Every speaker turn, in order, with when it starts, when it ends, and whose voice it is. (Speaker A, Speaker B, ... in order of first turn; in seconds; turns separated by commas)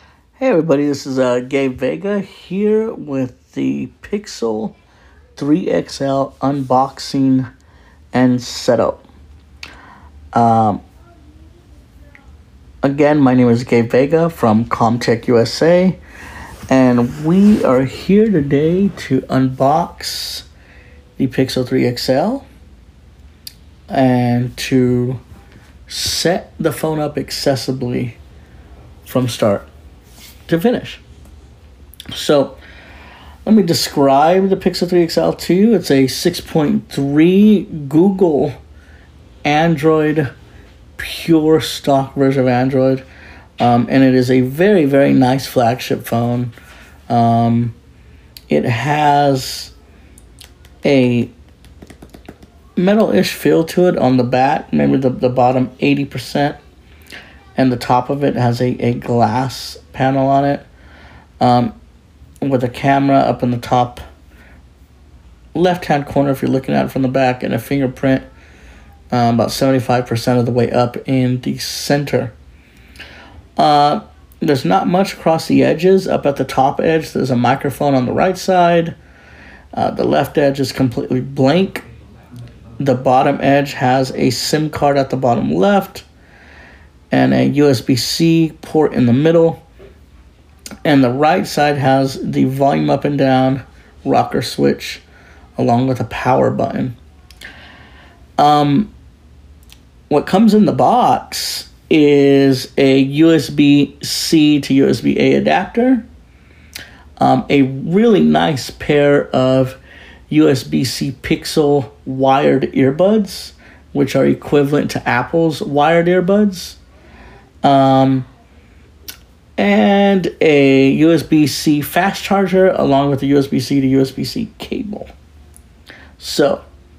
Speaker A: 0.4-4.8, Speaker A: 5.4-7.5, Speaker A: 8.1-9.1, Speaker A: 10.3-10.8, Speaker A: 12.8-16.0, Speaker A: 16.7-20.5, Speaker A: 21.2-22.5, Speaker A: 23.9-25.2, Speaker A: 25.9-28.2, Speaker A: 29.1-29.7, Speaker A: 30.5-31.0, Speaker A: 32.1-32.6, Speaker A: 33.5-38.5, Speaker A: 39.4-40.3, Speaker A: 41.0-43.0, Speaker A: 43.6-46.5, Speaker A: 47.1-47.8, Speaker A: 48.5-49.7, Speaker A: 50.8-51.3, Speaker A: 52.8-56.6, Speaker A: 57.6-60.6, Speaker A: 61.4-61.8, Speaker A: 62.4-64.0, Speaker A: 65.5-68.3, Speaker A: 69.1-72.3, Speaker A: 73.6-79.0, Speaker A: 79.7-81.9, Speaker A: 82.8-86.0, Speaker A: 87.1-89.6, Speaker A: 90.8-95.0, Speaker A: 95.6-97.0, Speaker A: 98.4-98.9, Speaker A: 100.1-106.1, Speaker A: 107.2-116.8, Speaker A: 117.6-118.3, Speaker A: 119.6-125.1, Speaker A: 126.2-126.6